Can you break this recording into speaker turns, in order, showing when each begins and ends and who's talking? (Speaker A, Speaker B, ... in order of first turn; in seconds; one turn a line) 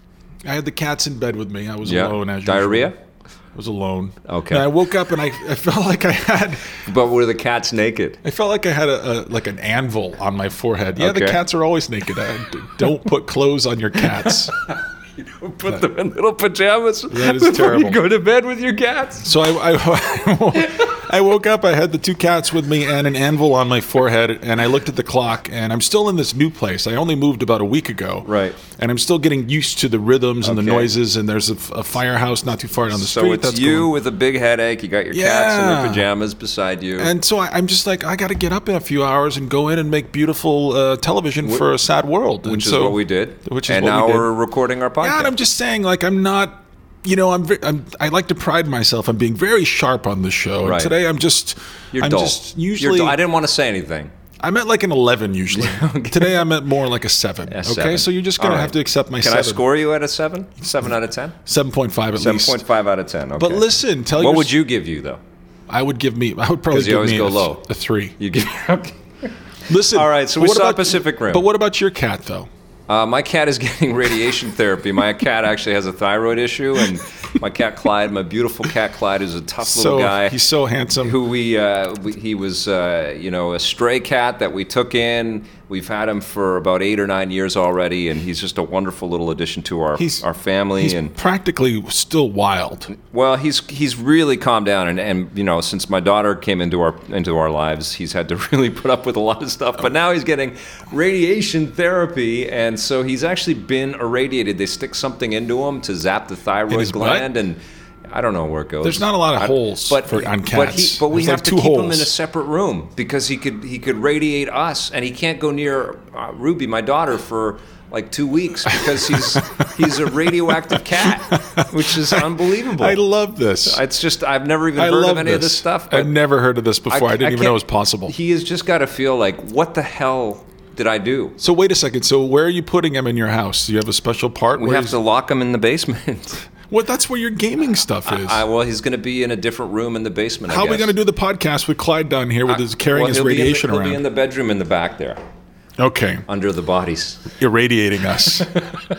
Speaker A: 0.4-2.9
Speaker B: 1.9-3.0
Speaker A: 3.5-6.8
Speaker B: 4.2-4.7
Speaker B: 6.8-8.2
Speaker A: 8.2-14.5
Speaker B: 11.0-11.4
Speaker B: 14.3-19.3
Speaker A: 17.1-18.0
Speaker A: 19.2-33.9
Speaker B: 28.2-28.6
Speaker B: 30.4-30.9
Speaker B: 32.9-37.1
Speaker A: 35.1-36.1
Speaker A: 37.0-44.3
Speaker B: 42.4-45.3
Speaker A: 45.0-53.2
Speaker B: 50.6-51.0
Speaker B: 51.9-54.1
Speaker A: 54.4-59.6
Speaker B: 55.5-56.5
Speaker B: 57.5-61.4
Speaker A: 61.5-62.6
Speaker B: 62.2-65.2
Speaker A: 63.4-64.5
Speaker A: 65.7-68.2
Speaker B: 66.7-67.6
Speaker B: 68.2-69.0
Speaker A: 69.7-72.5
Speaker B: 69.8-71.4
Speaker B: 72.9-80.4
Speaker A: 79.6-81.2
Speaker B: 81.0-91.1
Speaker A: 90.0-90.2
Speaker A: 90.8-92.9
Speaker B: 92.9-123.0
Speaker A: 106.7-107.3
Speaker A: 108.8-112.1
Speaker A: 119.1-119.4
Speaker A: 120.9-123.8
Speaker B: 123.7-126.2
Speaker A: 124.8-128.1
Speaker B: 126.9-131.4
Speaker A: 131.4-134.9
Speaker B: 134.6-136.5
Speaker A: 136.7-138.4
Speaker B: 138.1-140.9
Speaker A: 140.5-144.0
Speaker B: 142.5-145.2
Speaker A: 145.8-146.2
Speaker B: 146.3-147.3
Speaker A: 147.4-148.5